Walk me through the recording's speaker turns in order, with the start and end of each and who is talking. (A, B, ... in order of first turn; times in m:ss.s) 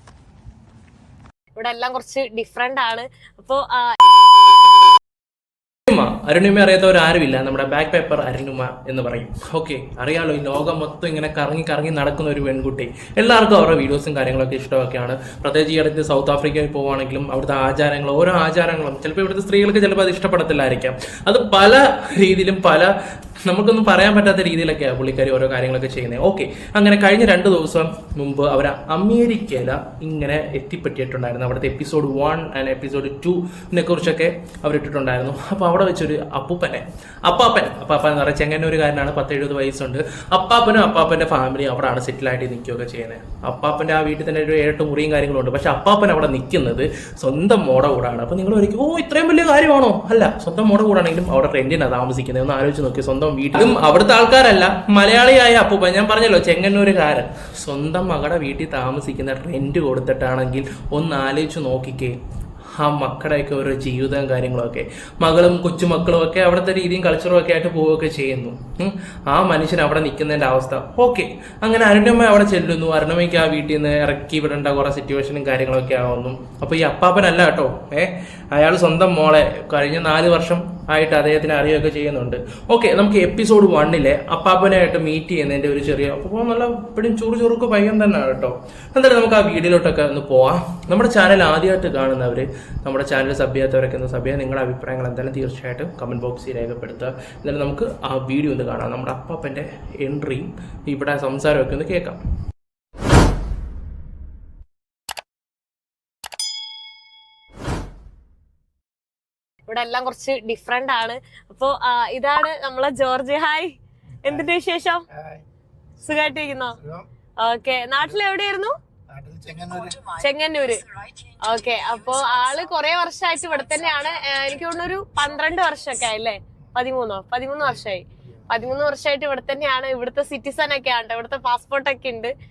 0:01.6-0:04.0 A
0:05.9-0:22.9 B
0:23.4-1:02.2 B
1:02.8-1:42.2 B
1:49.7-1:55.0 A
1:54.2-1:54.5 C
1:55.1-1:55.4 C
1:56.0-1:56.8 A
1:56.8-1:57.1 C
1:57.4-1:58.7 A
1:59.1-2:00.0 C
2:00.0-2:00.8 A
2:01.4-2:12.3 A
2:07.6-2:08.5 C